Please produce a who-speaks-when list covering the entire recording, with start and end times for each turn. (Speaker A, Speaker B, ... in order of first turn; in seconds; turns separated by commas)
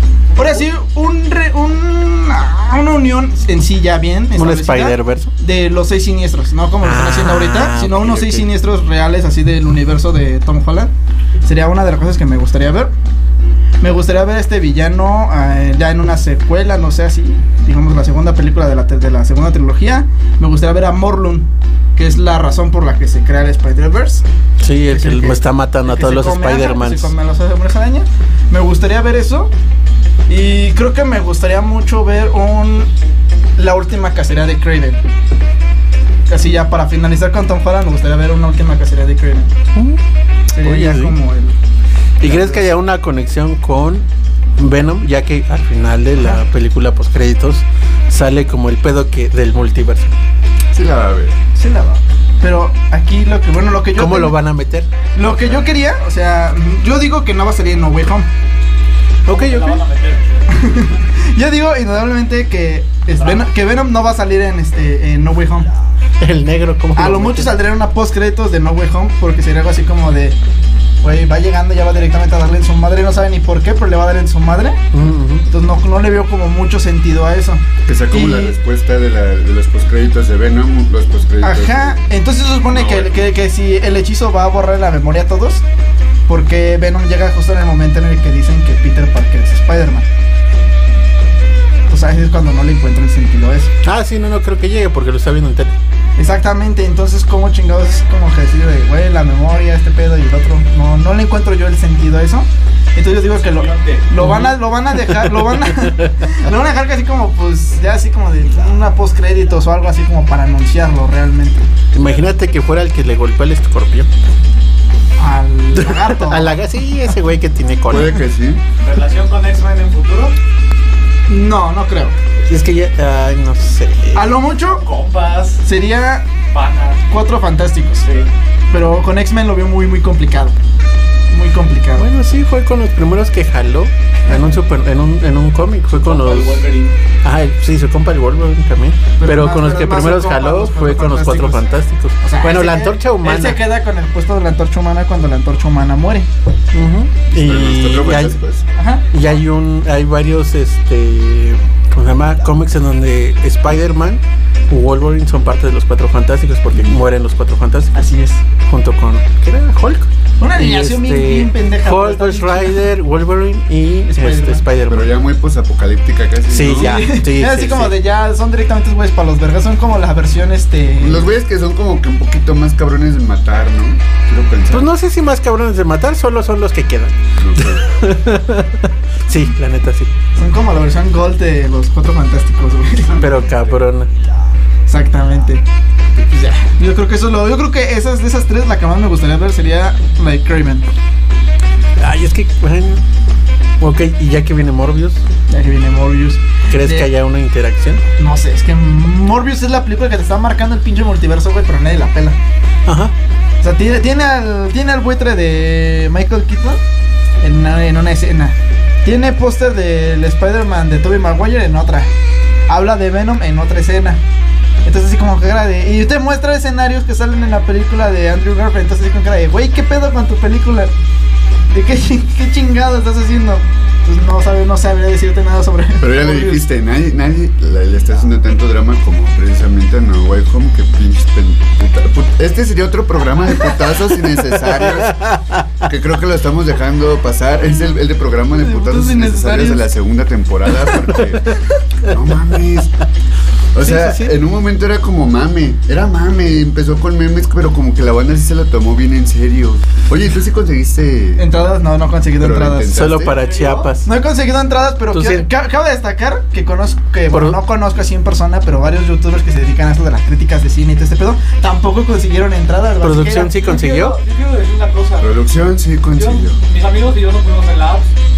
Speaker A: 0.3-0.6, Speaker B: 0.3-10.9, Speaker C: 4.3-5.3, Speaker C: 6.8-8.5, Speaker B: 11.4-12.9, Speaker B: 13.8-24.2, Speaker C: 24.6-27.1, Speaker B: 24.9-29.5, Speaker B: 30.3-32.9, Speaker B: 33.6-35.0, Speaker B: 36.3-39.5, Speaker C: 39.8-40.0, Speaker B: 40.5-41.5, Speaker C: 40.6-41.2, Speaker C: 42.2-50.1, Speaker D: 42.2-42.7, Speaker D: 50.7-51.4, Speaker B: 51.5-54.4, Speaker C: 54.0-54.9, Speaker B: 55.1-58.3, Speaker D: 55.2-55.6, Speaker C: 59.3-59.9, Speaker A: 59.3-60.4, Speaker B: 60.5-65.7, Speaker A: 63.2-63.5, Speaker C: 66.2-67.6, Speaker B: 67.0-70.4, Speaker B: 71.0-74.8, Speaker C: 74.9-75.5, Speaker B: 75.5-78.6, Speaker D: 77.9-82.0, Speaker B: 81.4-85.6, Speaker B: 86.3-90.1, Speaker B: 91.9-93.7, Speaker C: 93.8-95.8, Speaker B: 96.2-111.7, Speaker A: 103.3-104.2, Speaker C: 104.2-106.1, Speaker C: 111.9-114.1, Speaker B: 115.2-116.6, Speaker C: 115.8-118.2, Speaker D: 117.9-118.6, Speaker A: 118.8-120.3, Speaker B: 121.3-122.2, Speaker C: 122.5-124.2, Speaker B: 124.1-124.9, Speaker A: 124.7-125.6, Speaker B: 125.6-126.3, Speaker A: 126.5-127.1, Speaker B: 127.1-128.1, Speaker A: 128.0-128.3, Speaker B: 128.7-130.6, Speaker B: 131.3-132.1, Speaker C: 132.0-136.7, Speaker A: 136.0-137.0, Speaker C: 137.2-143.6, Speaker B: 139.2-141.6, Speaker B: 142.2-146.3, Speaker C: 146.7-148.4, Speaker D: 147.3-148.7, Speaker B: 148.8-149.1, Speaker C: 149.1-158.0, Speaker D: 156.7-157.0, Speaker B: 157.9-158.4, Speaker C: 158.6-165.1, Speaker B: 160.4-162.9, Speaker B: 164.1-164.6, Speaker D: 164.9-167.0, Speaker C: 166.5-168.0, Speaker B: 166.7-171.3, Speaker D: 171.0-174.9, Speaker C: 174.7-180.1, Speaker D: 177.4-177.8, Speaker B: 180.4-183.2, Speaker C: 183.2-184.1, Speaker B: 184.9-185.6, Speaker B: 186.2-190.9, Speaker C: 192.0-193.0, Speaker C: 193.8-195.2, Speaker B: 195.5-197.1, Speaker C: 196.7-198.0, Speaker B: 198.2-202.4, Speaker C: 202.9-203.1, Speaker B: 203.6-206.8, Speaker B: 207.4-212.1, Speaker B: 212.7-214.2, Speaker B: 214.8-220.9, Speaker B: 221.7-226.7, Speaker D: 226.0-235.2, Speaker C: 234.8-235.4, Speaker D: 235.8-241.4, Speaker B: 238.6-239.9, Speaker D: 242.0-242.9, Speaker D: 243.7-251.4, Speaker C: 243.8-244.3, Speaker B: 251.4-253.0, Speaker D: 252.4-253.4, Speaker C: 252.9-254.1, Speaker A: 253.4-253.9, Speaker B: 254.1-263.5, Speaker C: 255.1-255.5, Speaker C: 257.3-257.6, Speaker C: 263.0-264.2, Speaker A: 263.5-265.4, Speaker D: 265.2-266.6, Speaker A: 266.1-268.1